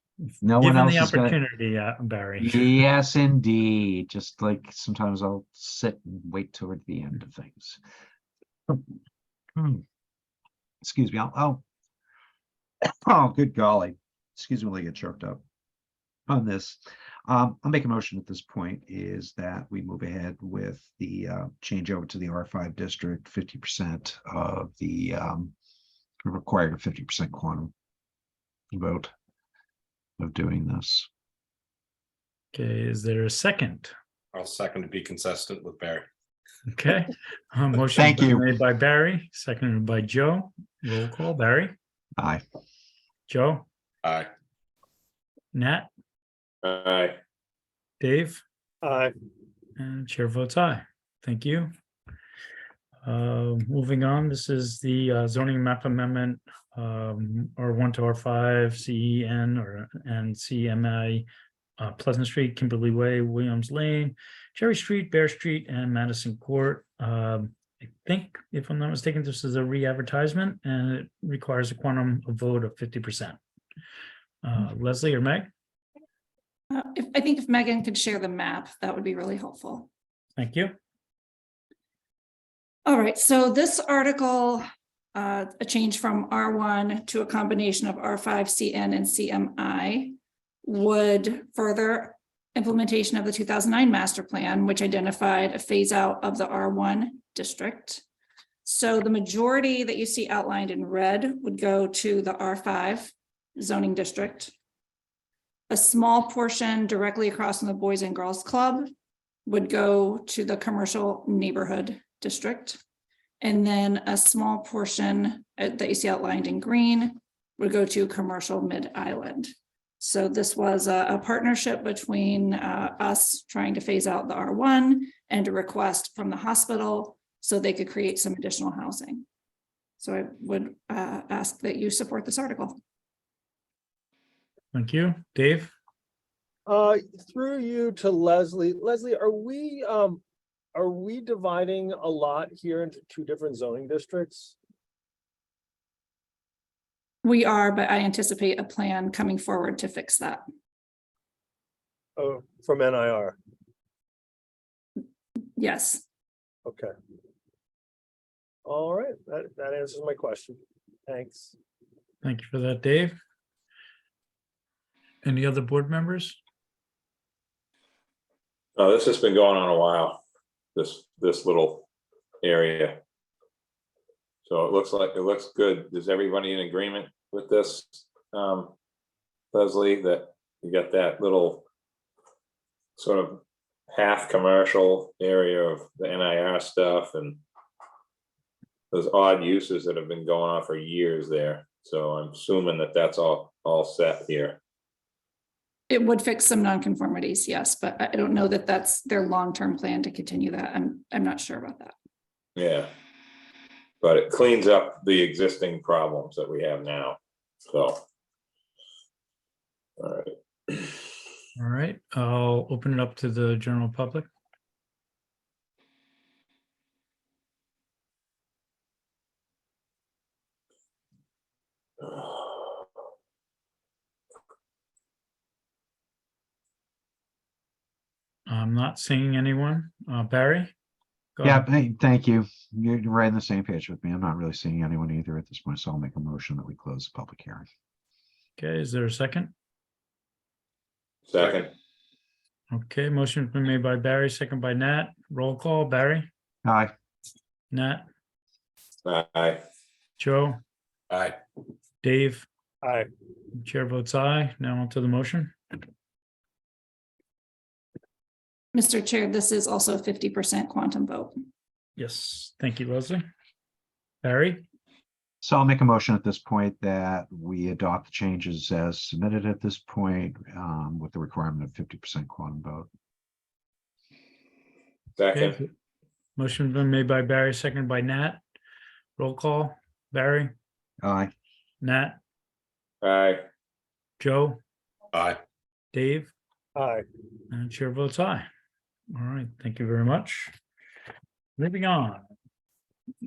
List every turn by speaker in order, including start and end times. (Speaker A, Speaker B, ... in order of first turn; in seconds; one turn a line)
Speaker A: 0.4-1.4
Speaker B: 0.6-2.8
Speaker A: 2.4-7.8
Speaker A: 9.6-9.8
Speaker A: 10.8-11.6
Speaker A: 12.9-15.4
Speaker A: 16.3-25.5
Speaker A: 26.2-27.7
Speaker A: 28.7-29.1
Speaker A: 30.2-31.1
Speaker B: 32.5-33.9
Speaker C: 34.3-36.1
Speaker B: 36.7-41.7
Speaker A: 38.0-38.5
Speaker A: 42.2-42.4
Speaker B: 43.3-43.6
Speaker C: 44.0-44.3
Speaker B: 45.5-45.9
Speaker D: 46.6-47.2
Speaker B: 48.0-48.4
Speaker E: 48.8-49.1
Speaker B: 49.8-51.7
Speaker B: 53.0-61.2
Speaker B: 61.8-73.4
Speaker B: 74.4-75.5
Speaker F: 76.7-79.9
Speaker B: 80.4-80.7
Speaker F: 82.8-84.6
Speaker F: 85.1-98.0
Speaker F: 98.6-104.5
Speaker F: 105.7-108.9
Speaker F: 109.5-112.8
Speaker F: 113.4-129.2
Speaker F: 130.0-132.8
Speaker B: 134.7-135.7
Speaker E: 136.7-140.2
Speaker E: 140.7-144.6
Speaker F: 147.2-150.4
Speaker E: 152.2-153.4
Speaker F: 155.6-156.0
Speaker E: 156.7-156.9
Speaker E: 158.7-161.6
Speaker B: 162.2-163.1
Speaker B: 165.2-166.4
Speaker D: 168.8-170.2
Speaker D: 170.7-171.9
Speaker D: 172.4-173.0
Speaker D: 174.4-178.7
Speaker D: 179.5-181.7
Speaker D: 183.0-187.4
Speaker D: 188.9-194.6
Speaker F: 195.9-201.9
Speaker D: 202.6-202.9
Speaker D: 204.0-208.0
Speaker D: 210.0-211.1
Speaker B: 211.6-214.2
Speaker B: 228.5-230.7
Speaker B: 231.4-231.7
Speaker A: 231.4-237.7
Speaker B: 238.6-239.5
Speaker D: 241.3-241.7
Speaker C: 241.3-241.6
Speaker B: 242.7-246.3
Speaker A: 246.6-246.9
Speaker B: 247.7-248.0
Speaker D: 249.0-249.6
Speaker B: 250.2-250.6
Speaker C: 251.1-251.4
Speaker B: 252.0-252.4
Speaker E: 252.8-253.1
Speaker B: 253.5-255.5
Speaker F: 258.7-261.4
Speaker B: 262.0-263.2
Speaker B: 264.2-264.6
Speaker A: 265.4-272.9
Speaker D: 275.1-275.6
Speaker B: 275.3-275.6
Speaker B: 276.4-278.4
Speaker B: 279.2-280.5
Speaker A: 281.0-281.3
Speaker B: 281.8-282.2
Speaker D: 283.0-283.4
Speaker B: 284.2-284.6
Speaker C: 285.1-285.4
Speaker B: 285.9-286.3
Speaker E: 286.7-287.0
Speaker B: 287.5-288.5
Speaker B: 289.1-290.5
Speaker B: 291.6-292.3